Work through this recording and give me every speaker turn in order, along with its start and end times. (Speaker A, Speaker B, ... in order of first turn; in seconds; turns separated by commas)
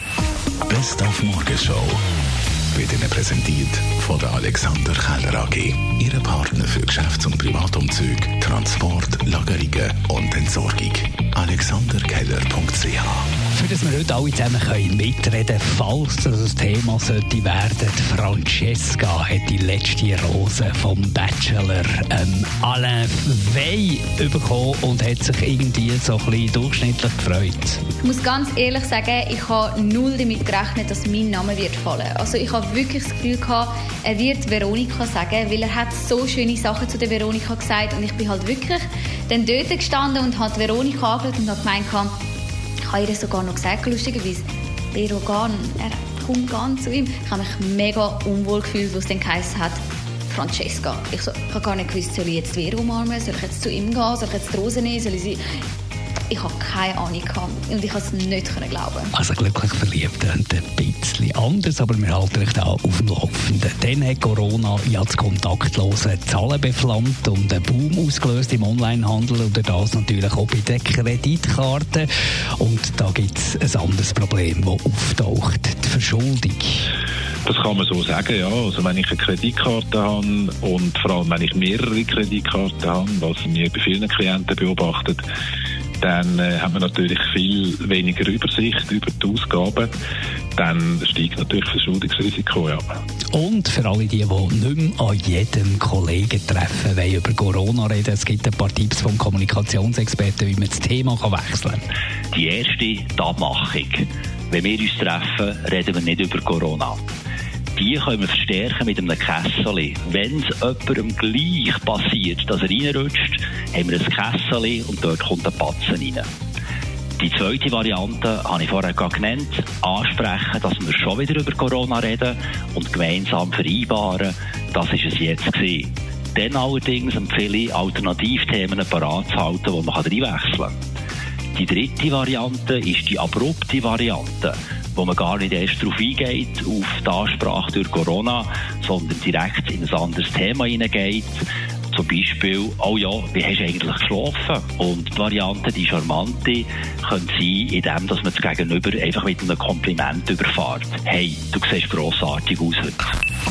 Speaker A: 0.7-2.0, Speaker A: 2.7-13.3, Speaker B: 13.5-27.8, Speaker C: 28.0-42.1, Speaker C: 42.9-55.4, Speaker C: 56.3-59.1, Speaker B: 59.1-76.8, Speaker D: 77.5-85.2, Speaker D: 86.0-89.9, Speaker D: 90.6-92.8, Speaker B: 93.3-101.8, Speaker E: 102.3-107.0, Speaker E: 107.8-116.3, Speaker E: 117.2-130.8, Speaker E: 131.5-153.1